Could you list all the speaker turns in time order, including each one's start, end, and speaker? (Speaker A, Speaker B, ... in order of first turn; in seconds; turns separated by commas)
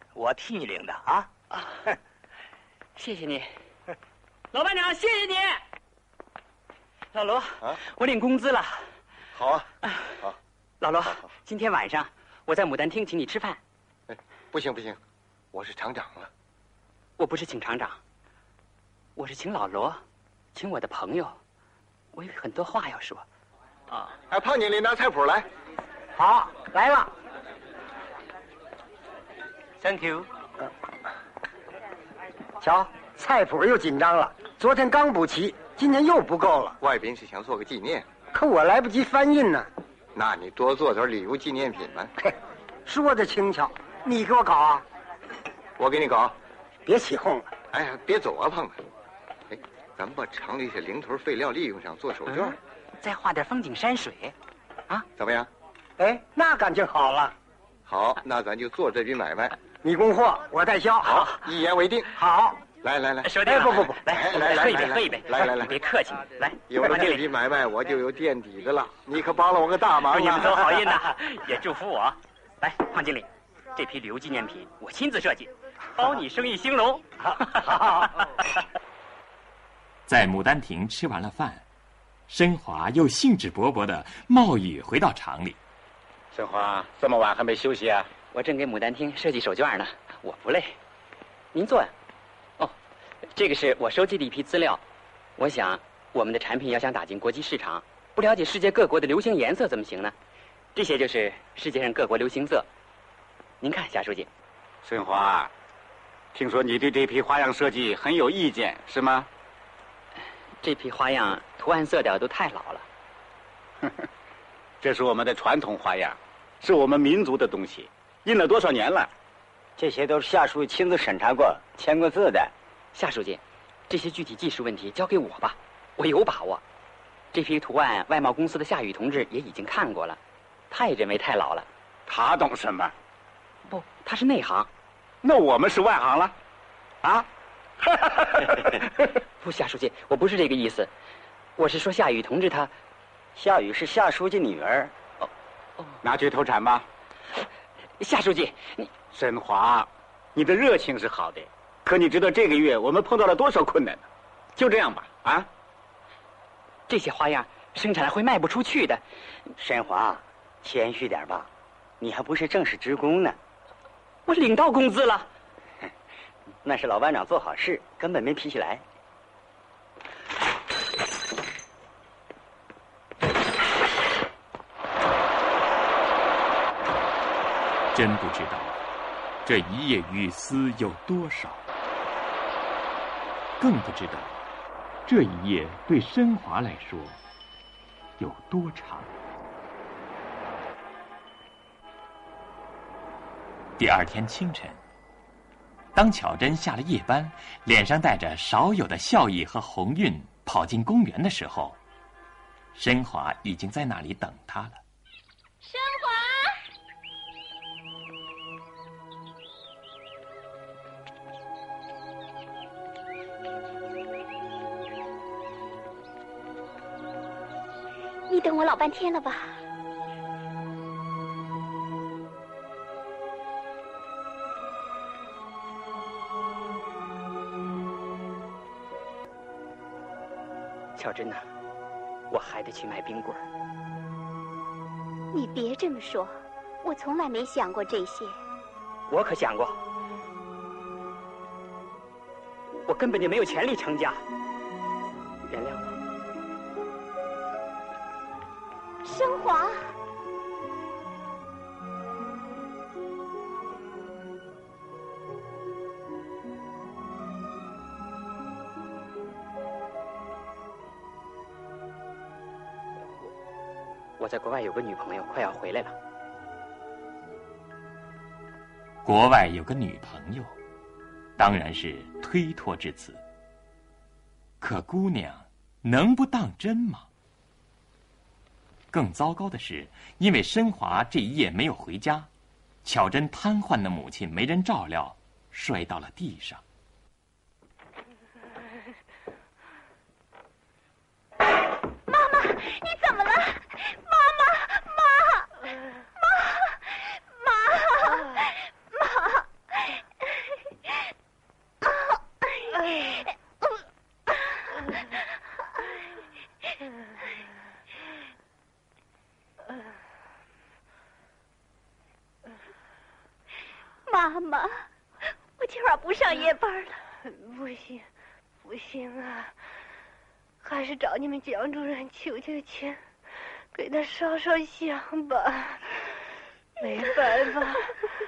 Speaker A: 0.1-1.3, Speaker B: 3.0-3.5, Speaker B: 4.5-5.6, Speaker B: 7.1-8.8, Speaker C: 9.3-9.7, Speaker B: 10.8-13.6, Speaker C: 14.1-15.0, Speaker C: 15.5-16.3, Speaker B: 17.2-18.0, Speaker B: 19.1-20.0, Speaker B: 20.5-21.4, Speaker B: 22.1-23.3, Speaker C: 24.3-25.5, Speaker D: 26.2-27.0, Speaker D: 32.6-36.8, Speaker C: 36.8-38.1, Speaker D: 38.3-39.7, Speaker C: 40.1-42.1, Speaker D: 42.9-44.9, Speaker C: 45.8-46.4, Speaker D: 46.9-47.5, Speaker C: 47.7-48.8, Speaker C: 49.5-52.6, Speaker B: 52.3-54.4, Speaker C: 55.2-55.5, Speaker D: 56.0-57.3, Speaker C: 57.9-59.6, Speaker D: 59.8-61.1, Speaker C: 61.0-62.2, Speaker D: 62.3-62.5, Speaker C: 62.8-63.5, Speaker B: 63.2-67.3, Speaker D: 63.6-64.0, Speaker C: 64.0-65.7, Speaker C: 66.7-71.0, Speaker B: 70.1-78.1, Speaker E: 80.1-81.6, Speaker E: 82.3-85.6, Speaker F: 86.3-88.1, Speaker B: 88.3-90.8, Speaker B: 91.5-91.9, Speaker B: 93.3-94.8, Speaker B: 95.4-100.1, Speaker B: 100.7-102.7, Speaker B: 103.6-104.3, Speaker F: 104.8-105.5, Speaker F: 106.3-109.3, Speaker B: 110.6-112.9, Speaker F: 114.8-119.1, Speaker A: 119.8-122.5, Speaker B: 122.9-126.6, Speaker B: 127.3-130.2, Speaker B: 130.7-131.7, Speaker F: 132.1-132.9, Speaker B: 133.7-134.7, Speaker F: 135.2-136.3, Speaker F: 137.8-138.5, Speaker B: 139.4-140.9, Speaker B: 141.6-142.7, Speaker A: 143.3-144.9, Speaker F: 146.0-146.8, Speaker B: 148.0-148.9, Speaker F: 149.1-155.5, Speaker B: 156.9-159.0, Speaker A: 159.6-161.5, Speaker A: 162.0-163.4, Speaker B: 164.3-165.3, Speaker A: 166.6-168.8, Speaker E: 177.9-178.8, Speaker E: 179.4-181.6, Speaker E: 183.6-184.4, Speaker E: 185.1-187.2, Speaker E: 188.2-189.1, Speaker E: 193.8-194.8, Speaker E: 195.9-201.8, Speaker E: 202.7-204.8, Speaker G: 205.6-206.5, Speaker G: 218.3-219.6, Speaker B: 230.9-231.5, Speaker B: 232.3-233.4, Speaker G: 235.3-238.4, Speaker B: 239.1-239.8, Speaker B: 242.9-244.2, Speaker B: 245.5-246.0, Speaker G: 249.0-249.9, Speaker B: 264.2-265.9, Speaker E: 269.0-270.5, Speaker E: 271.4-273.2, Speaker E: 274.6-277.1, Speaker E: 278.9-282.3, Speaker E: 282.8-286.6, Speaker G: 292.1-295.7, Speaker G: 296.2-300.4, Speaker G: 301.8-303.3, Speaker G: 304.3-305.1, Speaker G: 314.1-314.8, Speaker G: 315.6-317.0, Speaker H: 317.4-318.0, Speaker H: 318.9-319.3, Speaker H: 320.8-322.9, Speaker H: 323.8-325.8